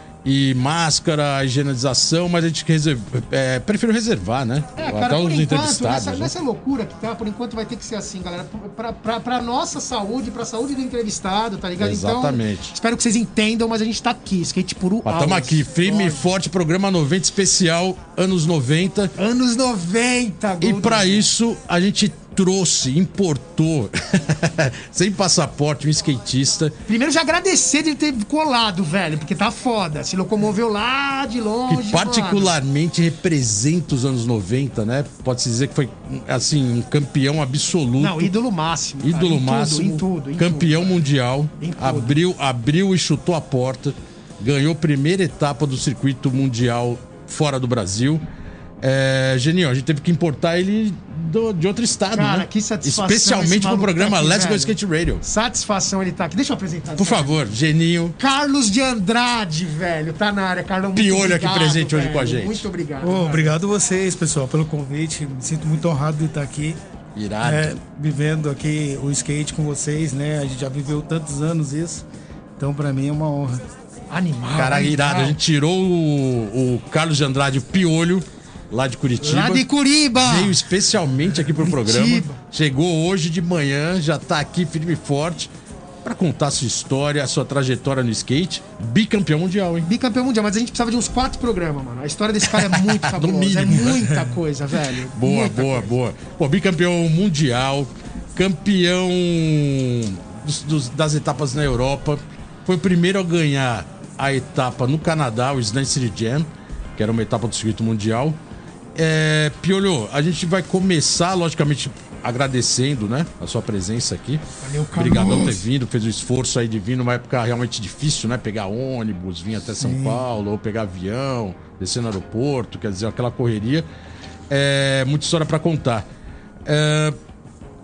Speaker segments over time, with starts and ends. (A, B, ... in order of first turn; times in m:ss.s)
0:00.2-0:06.3 A
0:04.8-0:16.2 B
0:11.8-0:12.7 A
0:15.0-0:19.1 A
0:19.2-0:21.2 B
0:20.6-0:26.8 A
0:26.9-0:32.5 B
0:31.7-0:38.3 A
0:38.0-0:41.0 B
0:39.0-0:48.2 A
0:41.6-0:42.2 B
0:48.8-0:55.2 A
0:52.1-0:54.7 B
0:55.2-0:57.4 B
0:57.0-0:58.2 A
0:58.2-1:03.5 B
1:01.0-1:02.6 A
1:03.0-1:06.8 C
1:07.2-1:07.7 A
1:07.4-1:12.0 C
1:12.6-1:13.6 C
1:14.1-1:15.4 B
1:14.6-1:25.5 A
1:19.2-1:20.6 B
1:21.6-1:22.4 B
1:26.0-1:29.9 A
1:29.8-1:35.9 B
1:32.5-1:34.1 A
1:35.1-1:48.4 A
1:49.0-1:54.4 A
1:54.6-1:55.6 C
1:55.0-2:03.9 A
1:59.8-2:00.2 C
2:04.5-2:06.0 A
2:06.6-2:07.2 A